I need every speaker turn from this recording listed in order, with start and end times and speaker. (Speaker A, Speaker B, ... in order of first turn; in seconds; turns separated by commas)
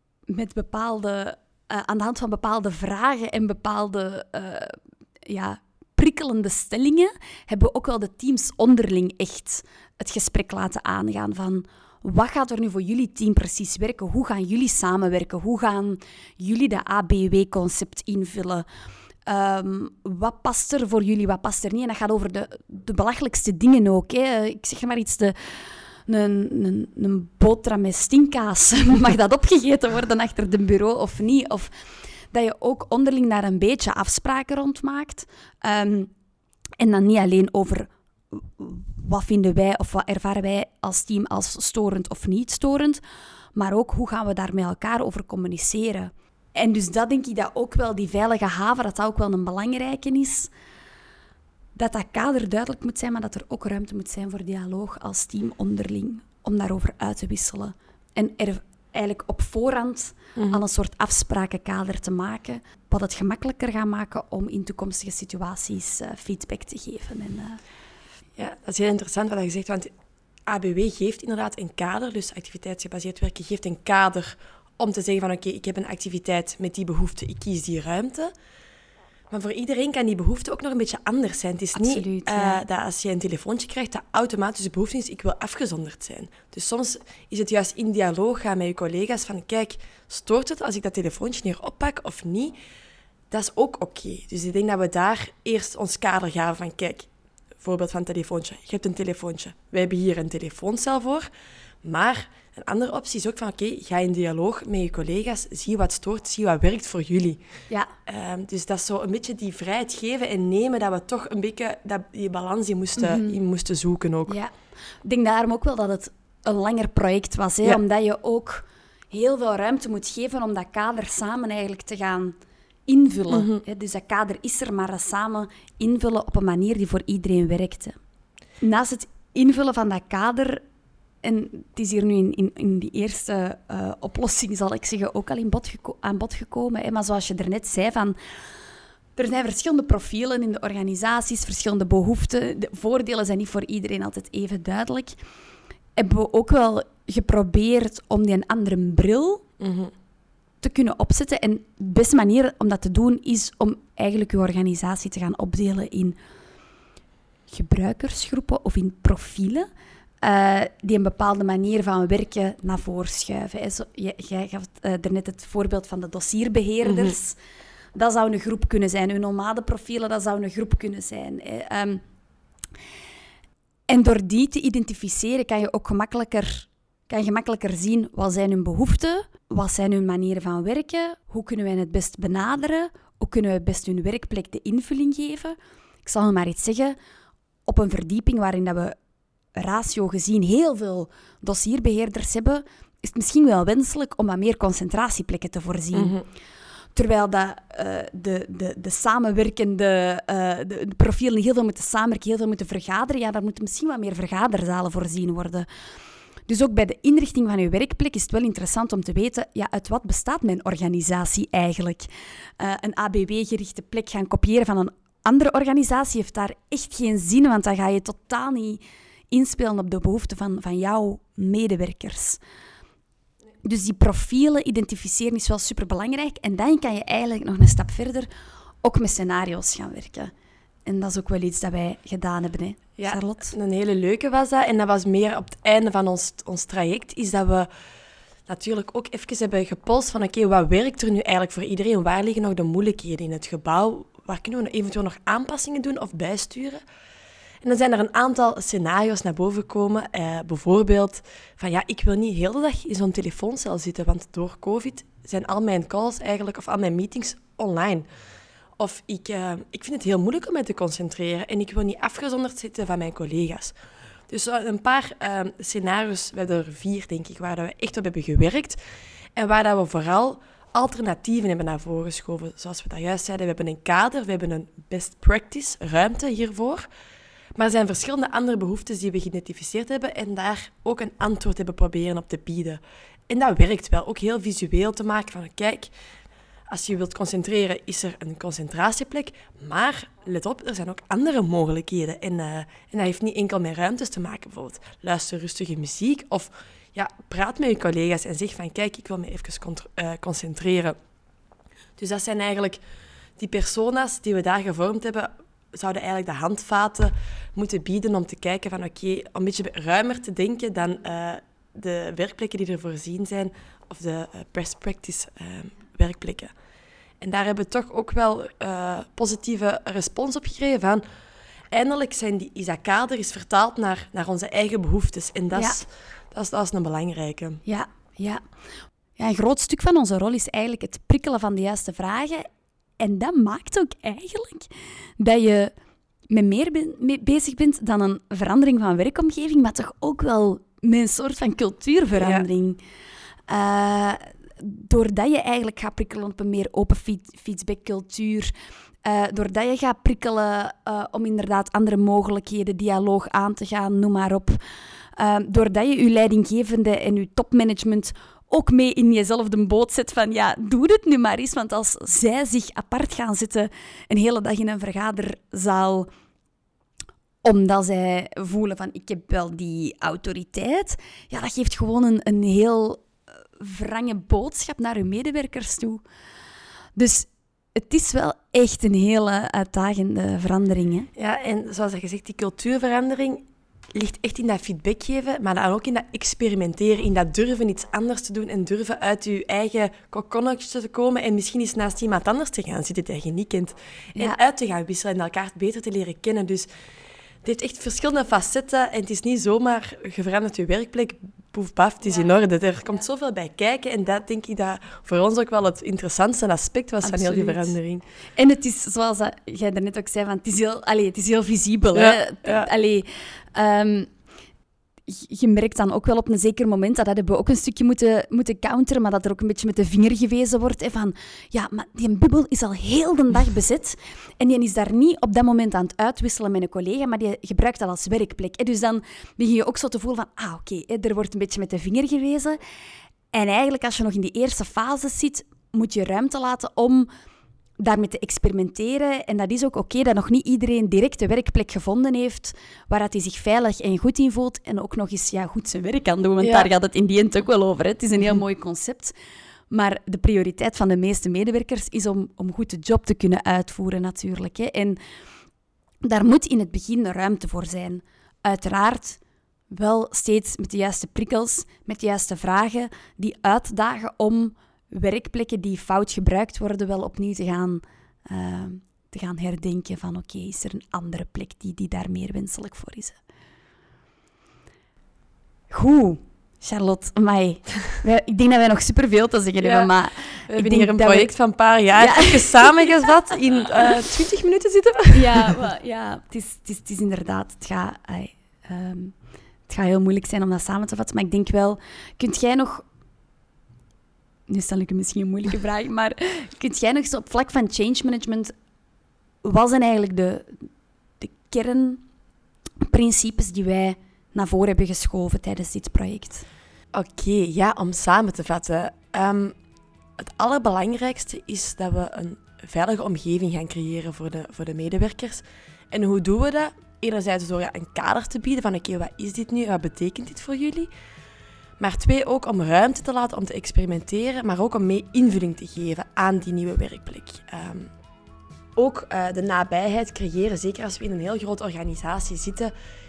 Speaker A: 0.3-4.8, Speaker A: 5.3-18.6, Speaker A: 19.3-31.7, Speaker A: 32.3-36.1, Speaker A: 36.8-43.0, Speaker A: 43.5-50.5, Speaker A: 51.8-67.6, Speaker B: 60.4-60.6, Speaker B: 68.4-69.9, Speaker B: 70.5-78.3, Speaker B: 79.3-92.5, Speaker A: 81.8-82.6, Speaker B: 93.3-97.1, Speaker B: 97.6-101.3, Speaker B: 101.8-107.4, Speaker B: 108.1-114.4, Speaker A: 113.0-113.4, Speaker A: 115.0-128.0, Speaker B: 123.3-123.6, Speaker A: 128.6-130.6, Speaker A: 131.2-138.2, Speaker A: 139.2-145.2, Speaker A: 146.0-149.4, Speaker B: 149.6-149.9, Speaker A: 150.6-156.2, Speaker A: 157.5-159.7, Speaker A: 160.2-167.4, Speaker B: 166.8-167.1, Speaker A: 167.9-172.0, Speaker A: 173.9-187.0, Speaker A: 187.7-188.9, Speaker A: 189.6-196.2, Speaker B: 195.9-196.2, Speaker A: 196.9-205.7, Speaker A: 206.5-222.4, Speaker A: 223.6-228.3, Speaker A: 228.8-230.3, Speaker A: 230.9-233.6, Speaker B: 233.0-237.7, Speaker B: 238.5-246.8, Speaker B: 247.6-258.1, Speaker B: 258.8-263.8, Speaker B: 264.3-268.8, Speaker B: 269.4-276.9, Speaker B: 277.6-285.9, Speaker B: 286.7-301.0, Speaker B: 302.0-302.8, Speaker B: 303.4-316.5, Speaker B: 317.2-321.0, Speaker B: 321.7-327.6, Speaker A: 325.5-325.8, Speaker A: 327.7-328.4, Speaker A: 329.2-332.5, Speaker A: 333.0-335.7, Speaker A: 336.3-342.8, Speaker B: 342.2-342.5, Speaker A: 343.5-348.5, Speaker A: 349.0-354.6, Speaker A: 355.2-366.1, Speaker A: 367.4-376.0, Speaker A: 377.0-381.1, Speaker B: 381.2-396.7, Speaker B: 397.4-408.0, Speaker A: 407.0-407.7, Speaker A: 408.4-414.1, Speaker B: 411.9-412.7, Speaker A: 415.1-432.6, Speaker A: 433.3-437.1, Speaker A: 437.8-449.1, Speaker B: 446.4-446.7, Speaker A: 449.7-455.0, Speaker A: 456.0-459.2, Speaker A: 459.7-473.2, Speaker A: 475.7-481.3, Speaker B: 479.6-479.9, Speaker B: 480.5-485.6, Speaker A: 482.0-482.7, Speaker A: 485.1-489.1, Speaker A: 489.7-492.9, Speaker A: 494.5-498.5, Speaker A: 499.4-500.7, Speaker A: 501.2-502.0, Speaker A: 502.8-506.4, Speaker B: 506.9-509.6, Speaker B: 510.2-520.9, Speaker B: 521.8-527.9, Speaker B: 528.8-532.7